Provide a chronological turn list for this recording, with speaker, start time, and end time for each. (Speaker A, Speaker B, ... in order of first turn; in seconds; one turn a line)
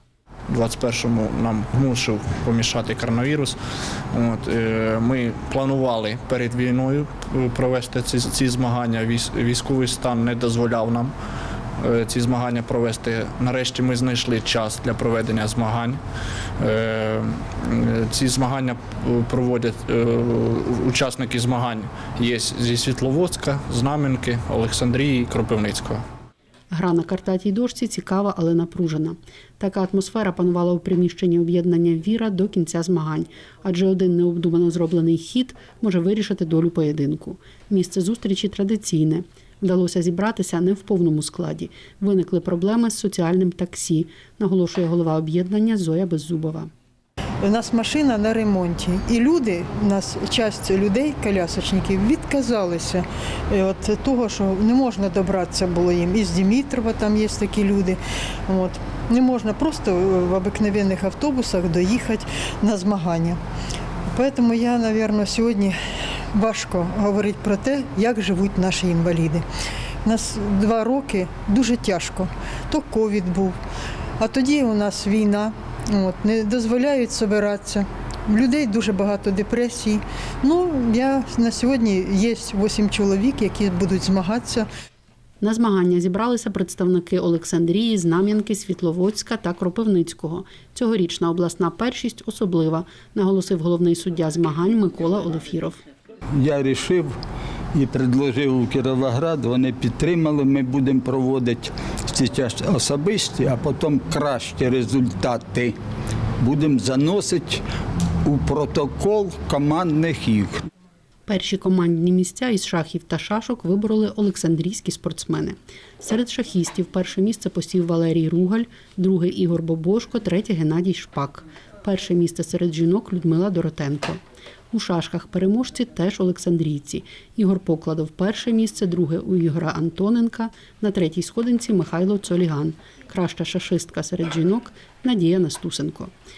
Speaker A: 0.5-3.6
Speaker A: 4.1-11.1
Speaker A: 11.8-16.0
Speaker A: 16.6-26.0
Speaker B: 26.7-46.7
Speaker C: 47.4-63.4
Speaker C: 64.1-65.8
Speaker C: 66.3-69.5
Speaker C: 70.0-73.6
Speaker C: 74.2-84.7
Speaker B: 85.4-95.8
Speaker D: 96.3-97.1
Speaker D: 97.7-105.8
Speaker D: 106.4-107.6
Speaker D: 108.2-110.6
Speaker B: 111.3-124.2
Speaker B: 124.7-136.1